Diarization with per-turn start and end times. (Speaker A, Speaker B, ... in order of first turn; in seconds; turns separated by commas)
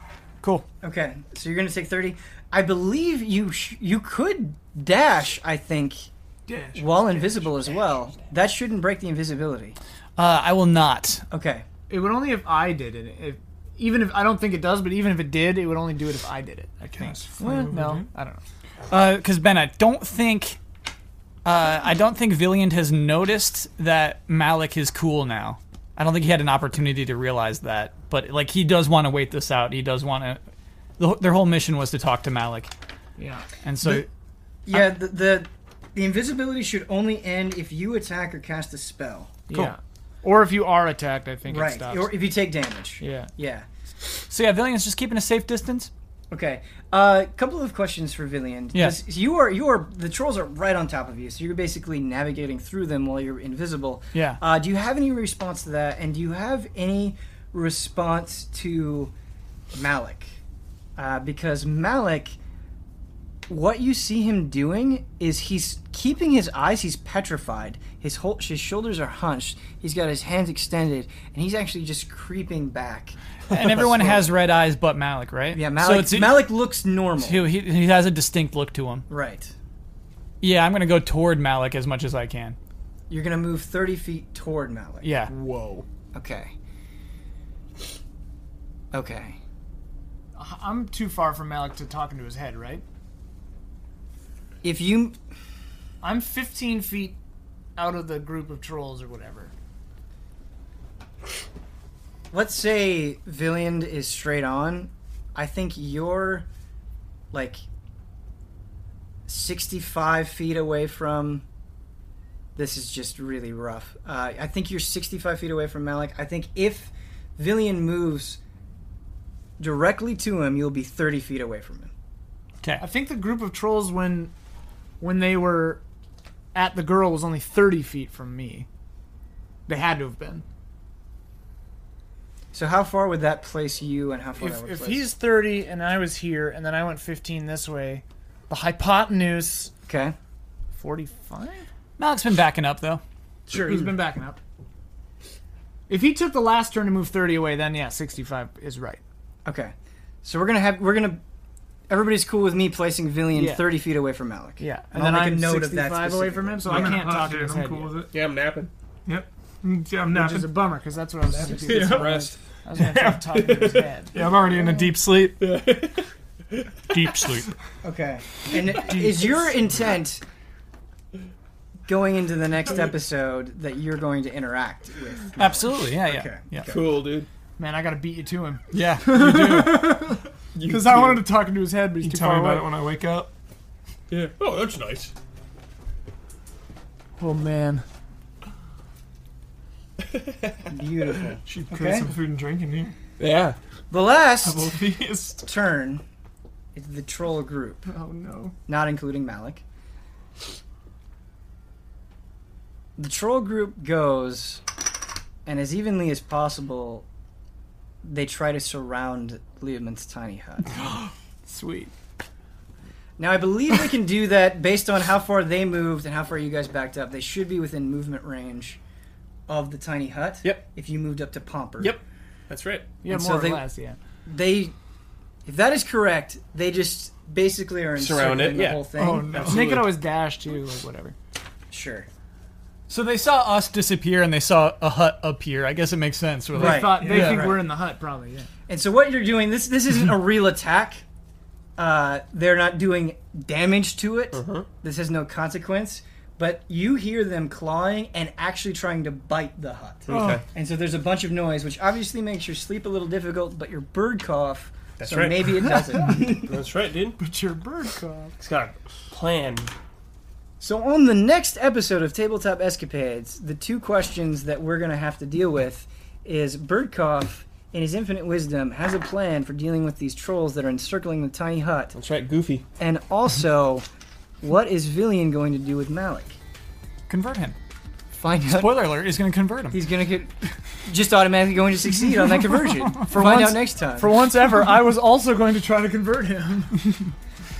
Speaker A: 0.8-6.1, Speaker B: 6.5-8.0, Speaker A: 6.7-9.8, Speaker C: 10.2-11.2, Speaker A: 11.3-11.7, Speaker D: 11.9-18.4, Speaker B: 16.9-18.1, Speaker C: 18.9-20.6, Speaker C: 21.4-30.4, Speaker C: 31.0-32.7, Speaker D: 33.2-33.4, Speaker C: 33.6-34.1, Speaker A: 34.7-39.3, Speaker D: 39.5-42.1, Speaker A: 41.5-43.7, Speaker D: 43.0-43.3, Speaker C: 44.3-45.9, Speaker A: 46.3-59.1, Speaker C: 48.7-49.0, Speaker C: 54.1-54.4, Speaker A: 59.7-60.4, Speaker A: 61.0-62.4, Speaker A: 63.5-74.3, Speaker C: 73.5-76.5, Speaker A: 75.5-77.5, Speaker C: 77.2-79.1, Speaker A: 79.1-79.5, Speaker C: 80.4-82.6, Speaker A: 83.1-85.1, Speaker C: 85.0-85.3, Speaker E: 85.2-85.9, Speaker A: 86.1-86.5, Speaker A: 88.9-89.4, Speaker D: 90.4-92.8, Speaker A: 94.6-95.2, Speaker D: 96.0-97.2, Speaker D: 97.8-99.5, Speaker A: 102.3-106.5, Speaker A: 107.3-107.6, Speaker A: 109.3-111.4, Speaker A: 112.6-118.4, Speaker A: 119.6-121.9, Speaker D: 122.8-124.3, Speaker D: 125.0-125.8, Speaker D: 126.5-128.7, Speaker D: 129.7-130.4, Speaker A: 132.5-135.1, Speaker D: 134.4-139.7, Speaker A: 139.9-140.2, Speaker D: 140.8-141.7, Speaker C: 142.0-143.0, Speaker D: 143.5-144.4, Speaker D: 145.9-149.0, Speaker A: 149.4-151.2, Speaker A: 151.9-157.1, Speaker D: 153.3-153.7, Speaker D: 154.6-157.9, Speaker B: 156.7-158.1, Speaker E: 158.1-158.7, Speaker B: 159.1-160.5, Speaker D: 160.1-164.2, Speaker E: 161.3-162.4, Speaker B: 161.7-162.2, Speaker B: 162.8-165.4, Speaker E: 163.5-163.8, Speaker E: 165.4-167.5, Speaker B: 167.0-167.4, Speaker A: 167.8-170.2, Speaker A: 171.9-176.5, Speaker C: 175.4-176.7, Speaker E: 176.6-177.3, Speaker D: 177.6-182.7, Speaker C: 178.7-179.4, Speaker E: 179.3-179.7, Speaker E: 180.6-181.2, Speaker B: 182.0-183.3, Speaker E: 184.1-185.1, Speaker D: 187.2-187.8, Speaker E: 190.0-190.7, Speaker A: 190.7-192.1, Speaker B: 191.4-192.9, Speaker E: 193.2-193.6, Speaker A: 193.9-194.8, Speaker B: 194.4-195.4, Speaker A: 195.4-196.0, Speaker A: 196.8-197.9, Speaker B: 197.9-198.5, Speaker D: 198.2-198.5, Speaker A: 198.7-199.6, Speaker A: 203.0-204.6, Speaker A: 205.5-207.1, Speaker A: 208.0-210.7, Speaker D: 210.7-211.9, Speaker A: 213.2-218.8, Speaker A: 219.5-222.0, Speaker E: 221.8-223.0, Speaker D: 223.0-224.0, Speaker A: 223.1-223.6, Speaker A: 224.3-224.7, Speaker A: 225.5-229.5, Speaker E: 228.0-229.9, Speaker D: 228.9-231.2, Speaker B: 229.3-229.7, Speaker A: 231.7-232.1, Speaker C: 232.9-237.5, Speaker D: 236.5-238.5, Speaker A: 236.6-237.6, Speaker B: 237.0-237.4, Speaker A: 238.7-241.0, Speaker A: 241.8-256.6, Speaker E: 244.3-244.7, Speaker E: 250.1-250.4, Speaker E: 255.0-257.2, Speaker D: 255.6-256.3, Speaker D: 257.2-258.4, Speaker E: 258.4-259.7, Speaker A: 260.6-271.9, Speaker E: 271.9-272.6, Speaker A: 272.8-273.9, Speaker A: 274.4-276.4, Speaker C: 277.1-277.6, Speaker A: 278.1-278.9, Speaker C: 278.5-279.8, Speaker A: 279.7-280.3, Speaker A: 280.9-284.1, Speaker D: 283.0-287.0